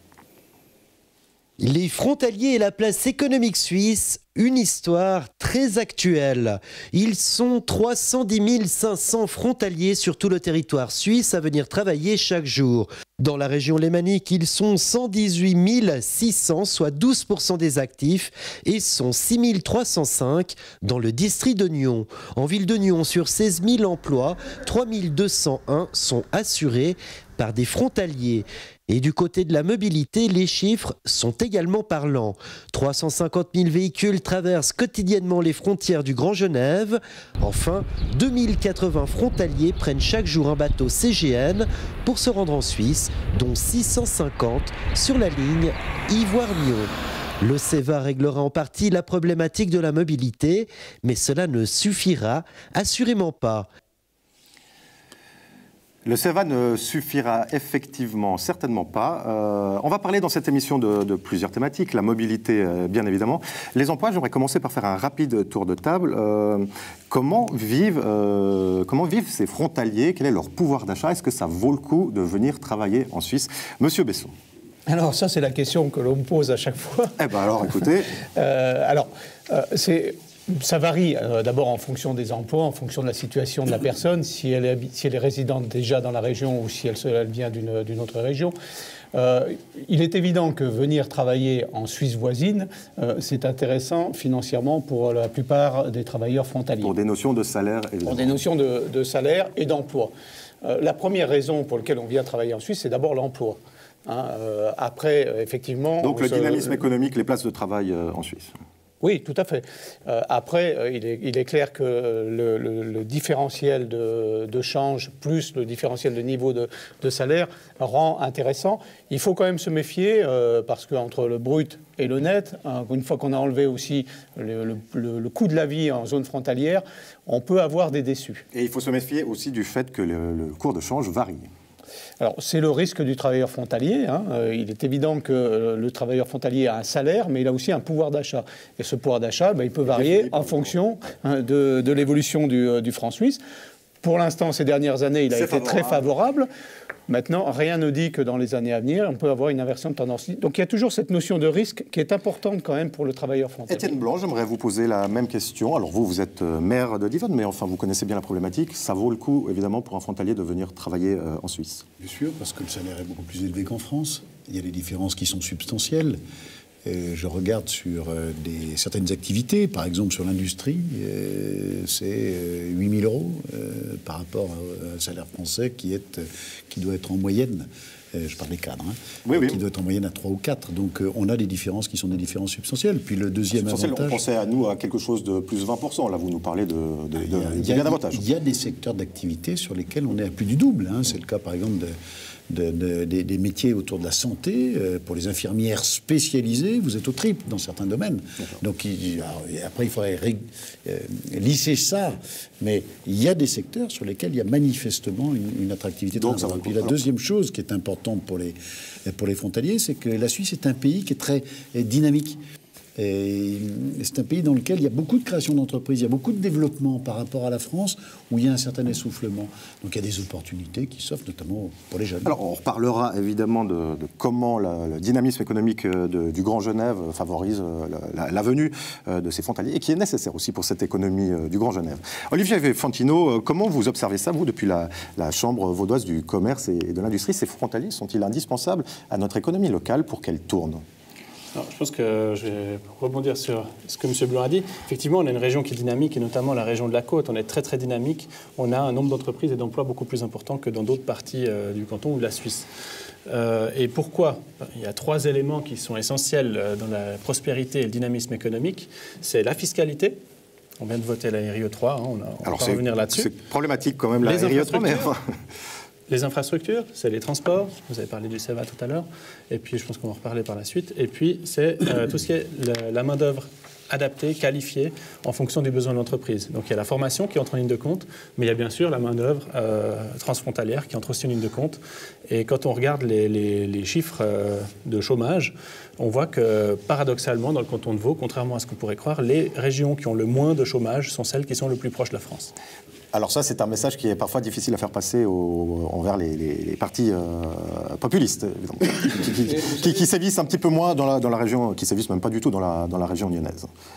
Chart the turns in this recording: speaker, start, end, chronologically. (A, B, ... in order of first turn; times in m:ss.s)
0:01.6-0:53.7 A
0:56.0-1:14.3 B
1:14.9-1:17.2 C
1:17.2-1:18.1 B
1:18.2-1:28.6 C
1:29.1-1:36.9 C
1:36.8-1:38.4 B
1:38.0-1:40.1 C
1:40.6-1:46.8 C
1:46.0-1:48.5 B
1:49.0-2:08.4 C
2:08.5-2:11.5 B
2:12.2-2:23.4 C
2:19.9-2:20.7 B
2:24.0-2:26.5 C
2:25.3-2:26.0 B
2:27.1-2:33.9 C
2:33.7-2:41.9 B
2:42.0-2:46.2 D
2:46.8-3:04.2 D
2:59.2-2:59.6 B
3:03.5-3:08.2 B
3:07.2-3:12.0 D
3:12.5-3:32.4 D
3:26.1-3:27.0 B
3:33.0-3:42.4 D
3:42.3-4:00.8 B
4:01.5-4:12.7 E
4:13.3-4:20.2 E
4:20.8-4:23.3 E
4:22.4-4:25.3 B
4:24.2-4:25.1 E
4:26.1-4:52.5 E
4:53.1-5:03.7 B